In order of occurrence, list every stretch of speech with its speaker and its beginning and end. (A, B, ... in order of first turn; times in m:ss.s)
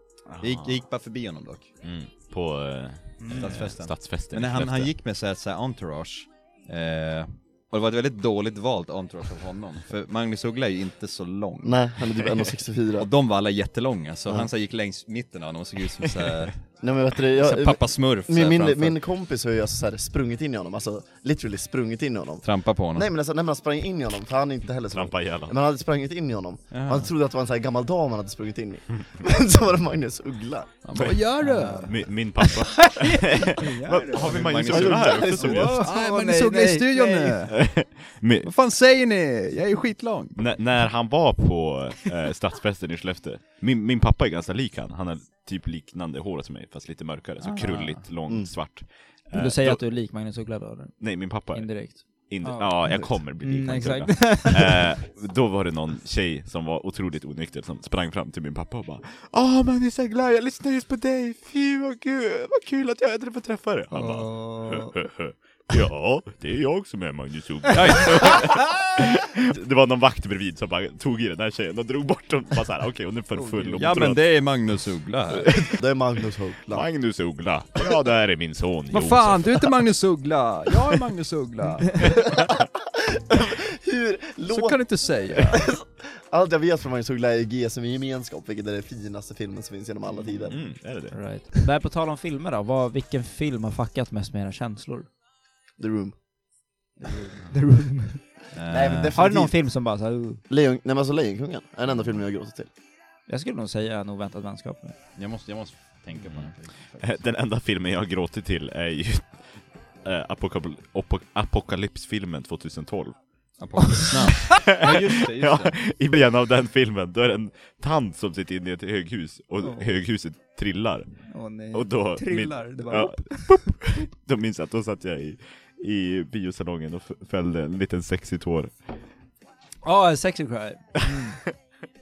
0:00.3-0:00.9 A
0:00.4-0:01.7 B
0:01.8-0:04.9 A
0:03.2-0:03.7 C
0:03.3-0:12.2 B
0:11.6-0:13.1 D
0:13.0-0:16.8 B
0:16.8-0:30.8 D
0:17.4-0:19.0 B
0:22.4-0:23.1 B
0:24.9-0:25.6 A
0:26.7-0:27.1 B
0:30.8-0:32.0 B
0:31.4-0:37.4 C
0:31.8-0:35.9 A
0:34.1-0:37.6 B
0:34.7-0:35.7 D
0:37.5-0:38.5 A
0:38.4-0:40.5 B
0:40.4-0:50.0 A
0:47.4-0:48.1 B
0:49.3-0:54.9 C
0:51.0-1:14.5 A
1:03.9-1:04.9 C
1:07.7-1:08.4 B
1:13.4-1:13.7 C
1:13.7-1:15.5 B
1:15.4-1:15.8 A
1:15.6-1:16.9 D
1:16.7-1:19.7 A
1:18.9-1:22.1 B
1:23.1-1:30.6 D
1:24.5-1:25.6 B
1:30.5-1:31.6 A
1:30.6-1:35.1 C
1:35.8-1:36.2 D
1:37.0-1:37.4 B
1:37.5-1:38.4 C
1:38.5-1:39.2 B
1:38.7-1:39.5 D
1:39.1-1:40.4 C
1:40.5-1:42.7 D
1:43.3-1:45.0 C
1:45.2-1:47.3 B
1:46.2-1:53.6 A
1:53.6-1:55.8 B
1:54.0-1:54.6 C
1:54.4-2:08.9 A
1:59.6-1:59.9 C
2:01.3-2:03.9 C
2:09.8-2:11.4 C